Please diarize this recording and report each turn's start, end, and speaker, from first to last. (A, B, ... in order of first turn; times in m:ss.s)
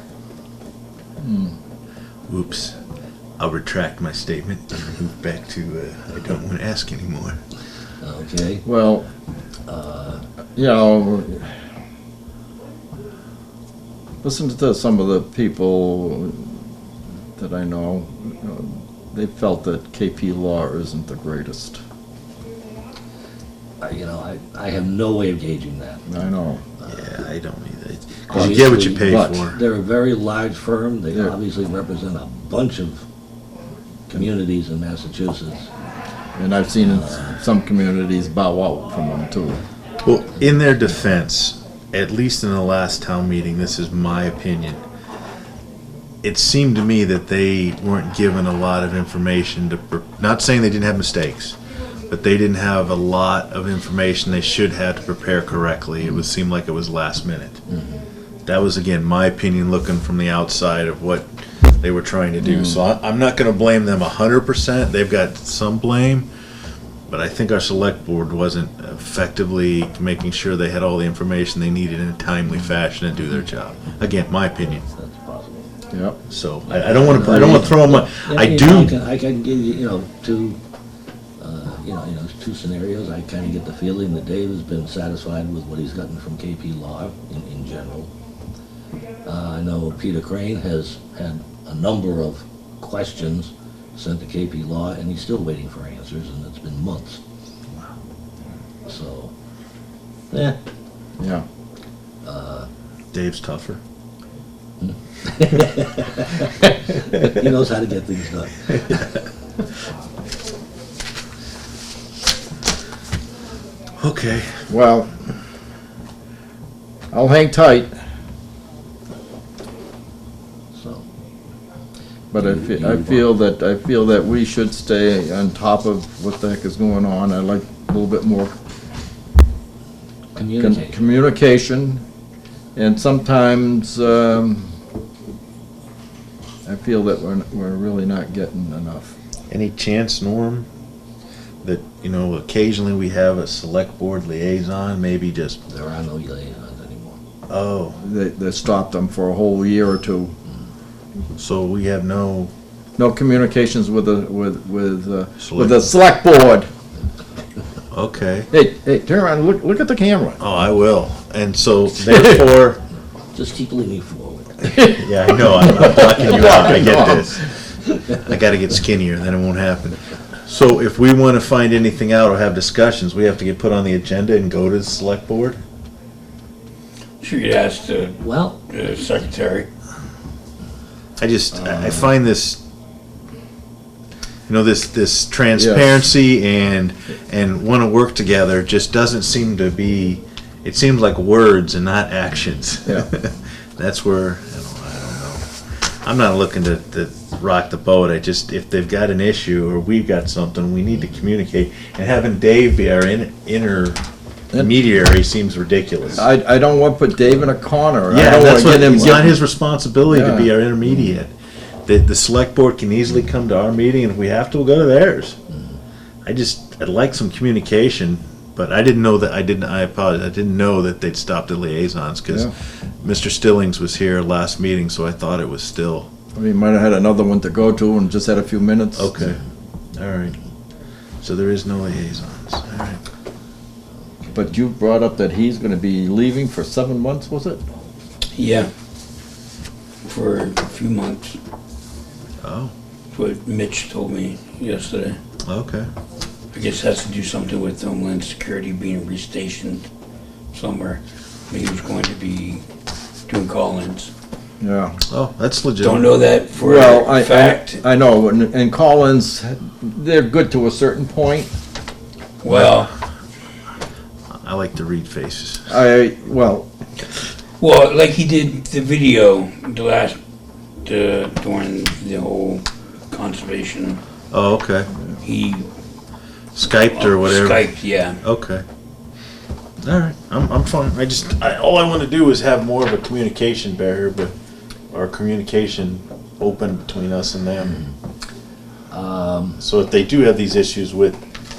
0:01.2-0:01.5 A
0:02.3-0:02.8 B
0:03.4-0:07.4 B
0:08.0-0:08.6 C
0:08.6-0:09.0 A
0:09.7-0:10.2 C
0:10.6-0:11.5 A
0:14.2-0:16.6 A
0:17.4-0:21.8 A
0:23.8-0:26.0 C
0:26.1-0:26.6 A
0:26.9-0:29.6 B
0:28.3-0:33.0 C
0:29.0-0:29.5 A
0:34.1-0:35.7 C
0:36.4-0:39.6 A
0:36.9-0:37.3 C
0:40.0-0:44.8 B
0:46.2-0:51.6 B
0:52.1-0:57.6 B
0:58.4-1:01.3 B
1:01.8-1:06.3 B
1:02.4-1:02.8 A
1:07.1-1:14.8 B
1:14.8-1:15.6 C
1:15.9-1:16.2 A
1:16.3-1:19.0 B
1:16.7-1:20.6 C
1:21.4-1:28.1 C
1:29.2-1:37.2 C
1:38.8-1:39.3 C
1:40.3-1:40.6 C
1:41.2-1:41.4 A
1:42.2-1:42.7 C
1:43.1-1:43.8 B
1:44.8-1:46.5 C
1:47.1-1:49.0 C
1:54.0-1:54.7 B
1:54.7-1:55.1 A
1:57.1-1:57.9 A
2:00.7-2:01.0 C
2:02.3-2:08.5 A
2:02.3-2:03.3 C
2:10.3-2:11.0 C
2:10.6-2:12.0 A
2:12.8-2:14.7 A
2:16.6-2:19.1 A
2:19.5-2:20.6 B
2:21.6-2:25.6 B
2:25.7-2:27.2 C
2:27.5-2:28.0 B
2:28.0-2:30.3 A
2:31.4-2:32.5 B
2:33.0-2:36.7 A
2:35.4-2:35.8 B
2:37.9-2:38.5 B
2:38.5-2:40.4 A
2:40.4-2:42.8 B
2:42.1-2:42.4 A
2:43.3-2:44.8 C
2:44.7-2:47.4 A
2:45.0-2:47.4 B
2:45.8-2:46.9 C
2:48.1-2:55.6 B
2:57.2-2:59.7 D
2:58.2-2:58.6 C
3:01.2-3:02.6 B
3:01.7-3:02.0 C
3:04.5-3:15.5 B
3:05.5-3:05.9 A
3:16.0-3:24.0 B
3:24.5-3:26.2 B
3:26.1-3:29.4 A
3:28.1-3:31.3 B
3:30.1-3:30.5 A
3:31.8-3:35.4 B
3:36.2-3:42.5 B
3:43.0-3:46.1 B
3:46.3-3:49.1 A
3:49.0-3:49.4 B
3:49.9-3:50.4 B
3:51.2-3:53.0 B
3:54.3-3:57.6 A
3:58.3-3:58.7 D
4:00.0-4:01.4 D
4:02.4-4:02.7 B
4:03.1-4:05.2 D
4:05.4-4:05.9 B
4:06.5-4:09.8 D
4:10.5-4:12.6 D
4:13.3-4:14.1 D
4:14.6-4:15.0 A
4:15.1-4:16.1 B
4:15.8-4:17.8 D
4:16.6-4:21.5 A
4:22.4-4:22.9 D
4:22.5-4:22.8 B
4:24.3-4:25.6 B
4:25.7-4:26.7 A
4:27.6-4:30.2 D
4:30.8-4:34.0 D
4:34.3-4:34.9 B
4:35.2-4:35.7 D
4:36.6-4:37.6 B
4:36.9-4:38.2 D
4:38.2-4:38.6 B
4:39.8-4:44.3 B
4:44.9-4:47.8 B
4:48.9-4:49.6 C
4:49.6-4:51.2 B